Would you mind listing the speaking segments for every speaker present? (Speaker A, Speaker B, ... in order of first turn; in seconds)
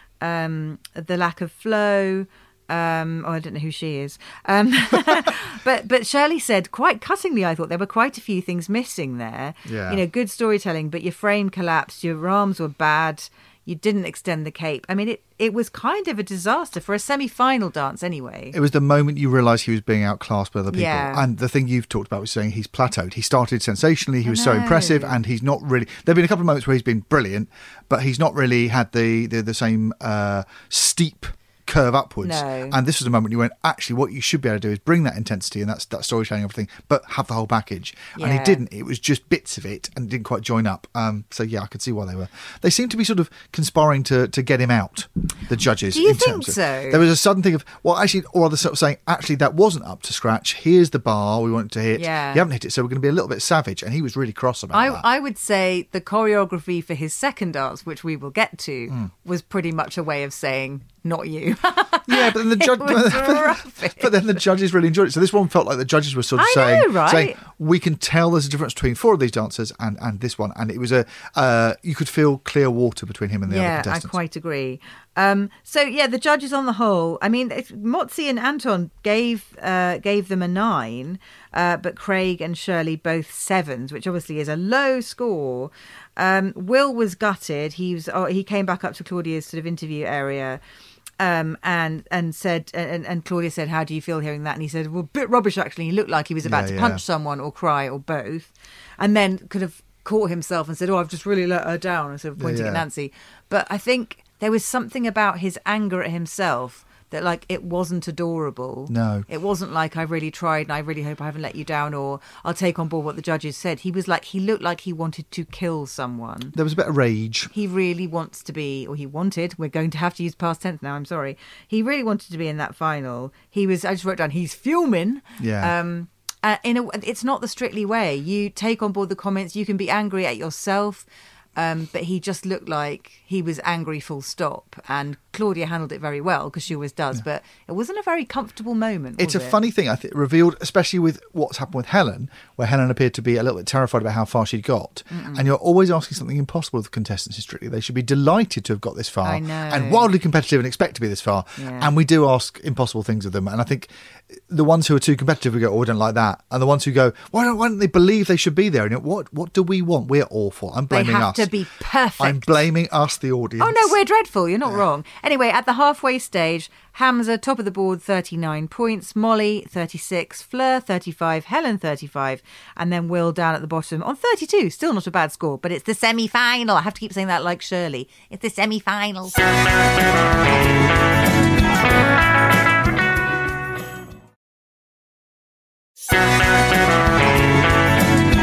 Speaker A: 0.2-18.6, 20.7-21.3, 24.2-25.2, 32.2-32.8, 38.1-38.6, 45.9-47.0, 51.9-52.4, 54.7-64.1, 66.3-67.4, 73.5-90.6, 91.2-116.5, 117.5-131.1, 131.6-139.6, 145.1-145.5, 149.2-150.1, 151.6-151.9, 160.9-162.5, 163.6-179.5
Speaker B: 9.6-10.0, 18.5-55.0, 62.0-74.1, 96.4-97.0, 102.4-102.8, 108.9-109.2, 116.5-117.5, 125.4-125.7, 139.2-161.5, 162.2-163.9